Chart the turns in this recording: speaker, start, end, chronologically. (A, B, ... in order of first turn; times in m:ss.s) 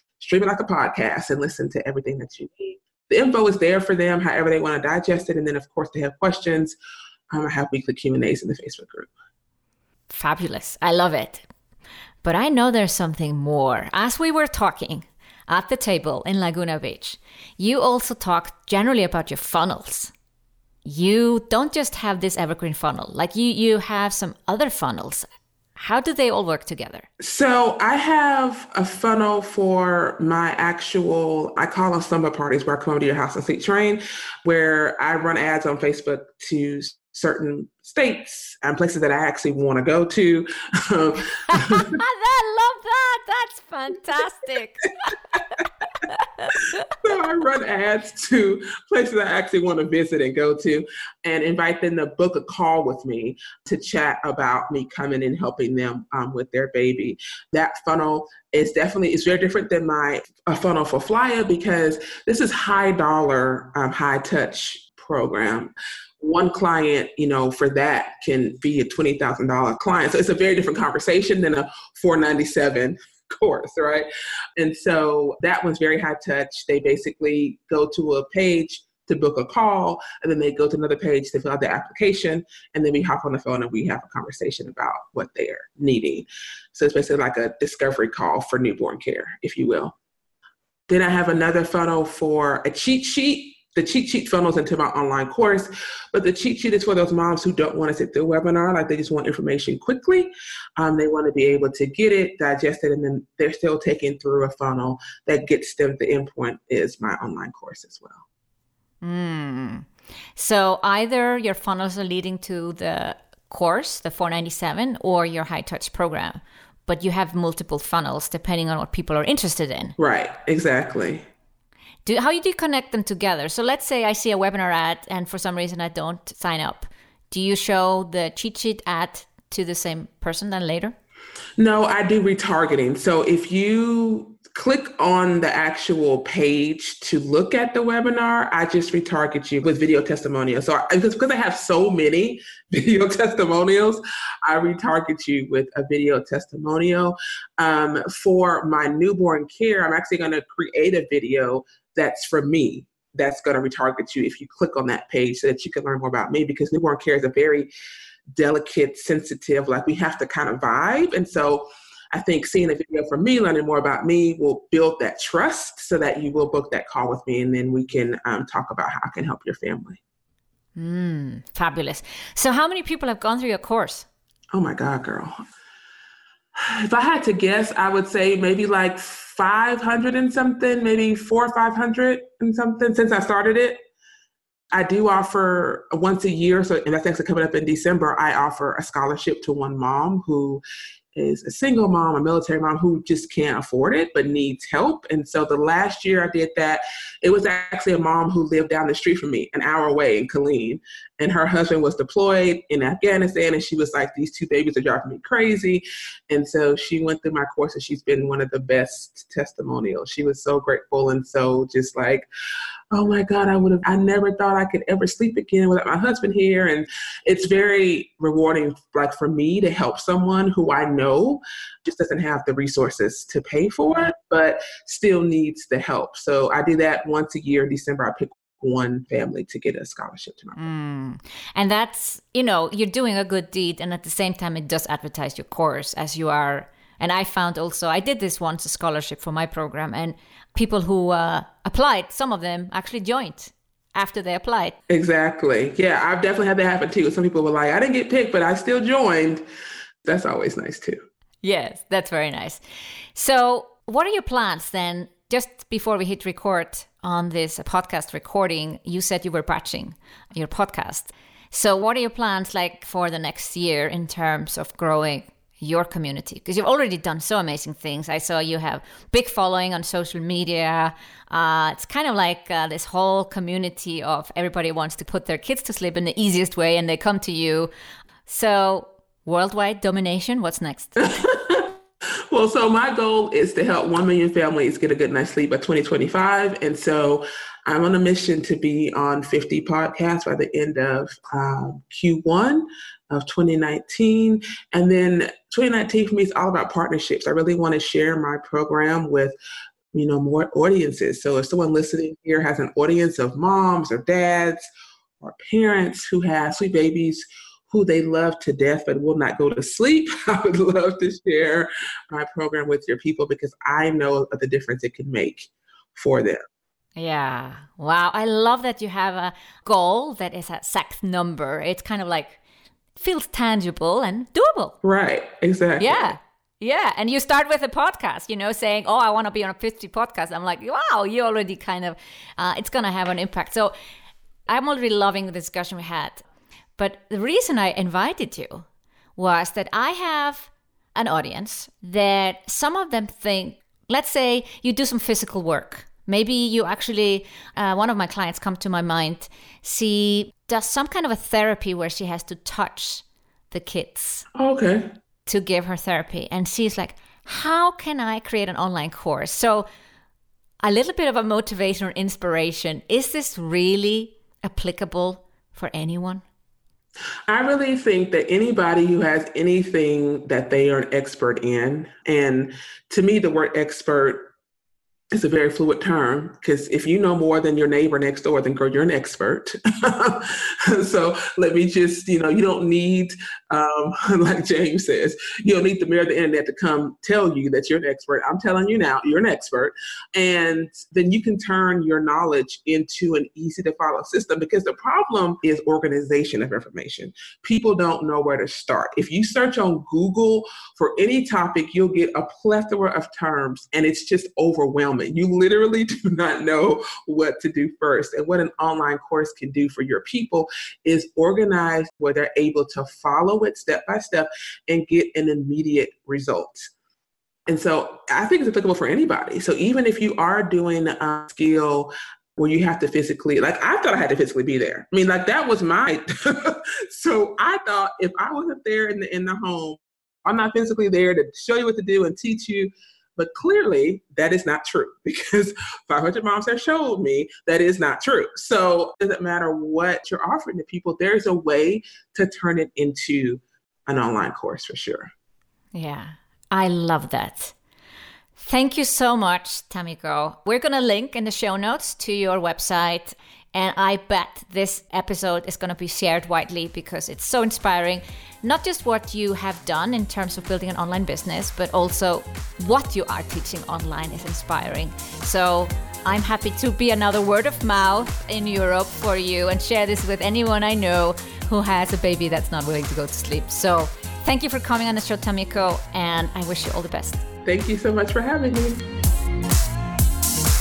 0:00.2-0:06.8 A
0:07.3-0:09.1 A
0:10.1-0:11.5 B
0:12.2-0:20.1 B
0:20.8-0:27.1 B
0:27.2-0:42.0 A
0:41.5-0:45.2 B
0:46.0-0:46.9 B
0:47.0-1:30.0 A
1:30.9-1:48.2 A
1:49.0-2:00.0 B
2:00.0-2:01.2 A
2:02.0-2:11.0 B
2:11.6-2:37.7 A
2:38.4-2:50.0 A
2:50.8-2:54.1 B
2:54.5-2:55.3 A
2:56.6-3:03.8 A
3:04.7-3:10.6 A
3:11.2-3:32.3 A
3:32.9-3:50.7 A
3:50.6-4:04.8 B
4:04.9-4:09.4 A
4:10.0-4:11.0 A
4:11.4-4:12.6 B
4:13.2-4:37.7 B
4:38.3-4:41.1 B
4:41.0-4:41.8 A
4:42.3-4:59.4 A
4:59.9-5:04.7 A
5:05.2-5:16.4 A
5:17.0-5:22.4 B
5:23.0-5:24.8 B
5:24.8-5:26.1 A
5:25.8-5:33.7 B
5:34.5-5:36.2 B
5:36.8-5:38.6 B
5:39.2-5:54.2 B
5:54.4-5:54.9 A
5:55.3-5:59.7 B
6:00.6-6:06.2 B
6:07.3-6:14.3 A
6:15.1-6:56.7 A
6:57.5-7:25.1 A
7:25.7-7:27.6 B
7:28.4-7:57.2 B
7:57.4-7:58.8 A